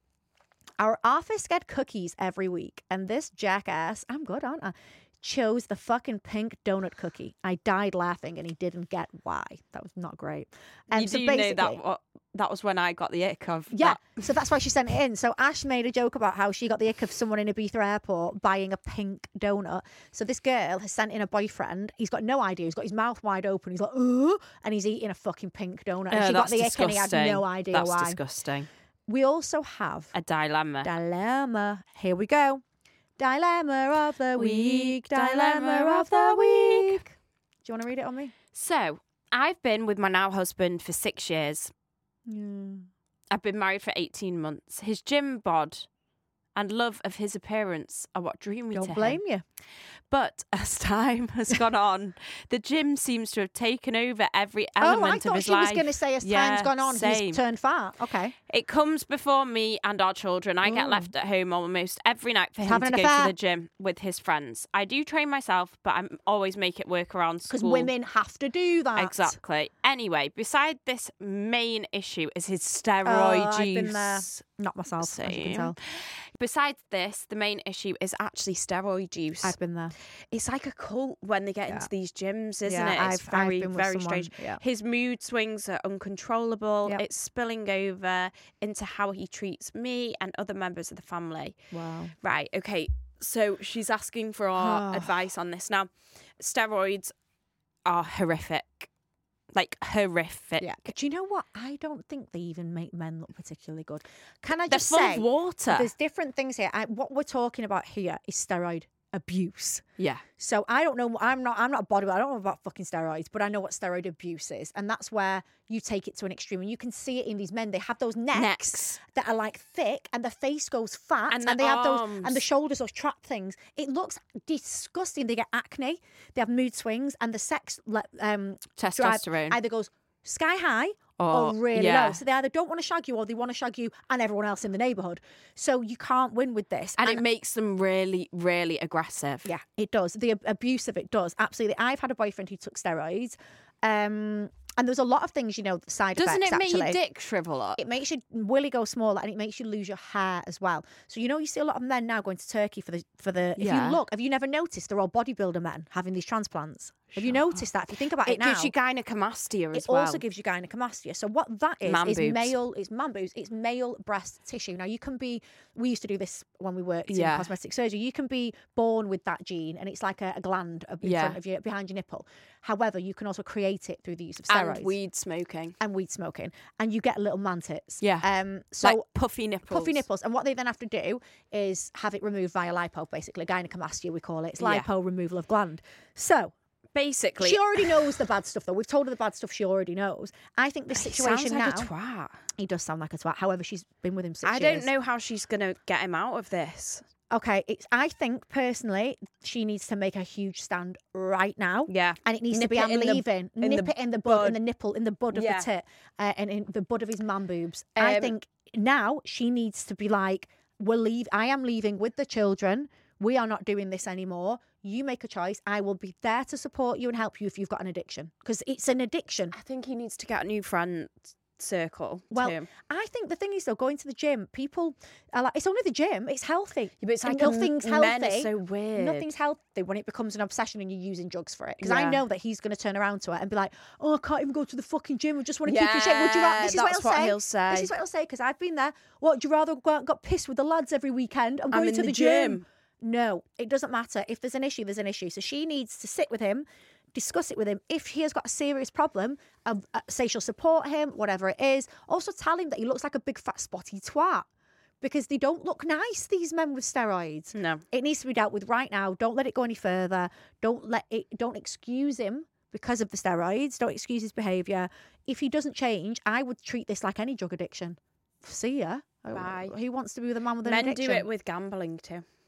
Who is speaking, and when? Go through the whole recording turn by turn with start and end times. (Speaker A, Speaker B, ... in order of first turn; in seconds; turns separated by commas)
Speaker A: 0.8-11.8, Speaker B: 10.9-14.1, Speaker A: 13.7-28.2, Speaker B: 26.1-28.7, Speaker A: 29.1-30.1, Speaker B: 30.1-30.9, Speaker A: 30.8-32.6, Speaker A: 33.2-37.1, Speaker B: 34.4-37.0, Speaker A: 37.6-38.3, Speaker B: 38.5-41.7, Speaker A: 42.3-42.9, Speaker B: 43.3-45.9, Speaker B: 46.6-49.2, Speaker A: 48.7-49.4, Speaker B: 50.1-57.4, Speaker A: 54.8-58.4, Speaker B: 58.5-67.9, Speaker A: 60.6-61.1, Speaker A: 62.6-63.3, Speaker A: 67.5-69.4, Speaker B: 69.0-74.4, Speaker A: 73.0-75.8, Speaker B: 75.0-75.8, Speaker B: 76.4-79.6, Speaker A: 79.4-80.0, Speaker B: 80.3-91.6, Speaker A: 82.7-84.6, Speaker A: 91.7-92.1, Speaker B: 92.2-97.1, Speaker A: 94.6-95.2, Speaker B: 97.8-98.9, Speaker B: 99.5-100.9, Speaker A: 100.6-109.8, Speaker B: 104.7-105.9, Speaker A: 110.4-137.2, Speaker B: 118.3-119.0, Speaker B: 121.3-122.4, Speaker B: 128.8-129.6, Speaker B: 131.2-132.2, Speaker B: 137.0-139.5, Speaker A: 139.4-147.0, Speaker B: 146.2-147.8, Speaker A: 147.8-158.7, Speaker B: 153.6-154.0, Speaker B: 157.1-157.7, Speaker B: 158.2-160.2, Speaker A: 159.7-175.0, Speaker B: 161.8-162.6, Speaker B: 167.1-167.5, Speaker B: 171.0-171.4, Speaker B: 174.5-175.8, Speaker A: 175.8-179.1, Speaker B: 178.0-178.3, Speaker B: 178.8-180.1, Speaker A: 179.7-186.5, Speaker B: 184.6-184.8, Speaker B: 186.9-188.2, Speaker A: 187.4-191.9, Speaker B: 191.0-192.3, Speaker A: 192.6-194.9, Speaker B: 194.4-197.1, Speaker A: 197.3-219.6, Speaker B: 201.9-204.6, Speaker B: 205.3-205.7, Speaker B: 208.0-208.3, Speaker B: 219.5-222.7, Speaker A: 222.3-254.5, Speaker B: 227.0-229.3, Speaker B: 231.8-232.2, Speaker B: 235.7-237.9, Speaker B: 241.7-242.6, Speaker A: 255.0-271.3, Speaker B: 257.5-257.8, Speaker B: 269.3-269.7, Speaker B: 270.6-272.2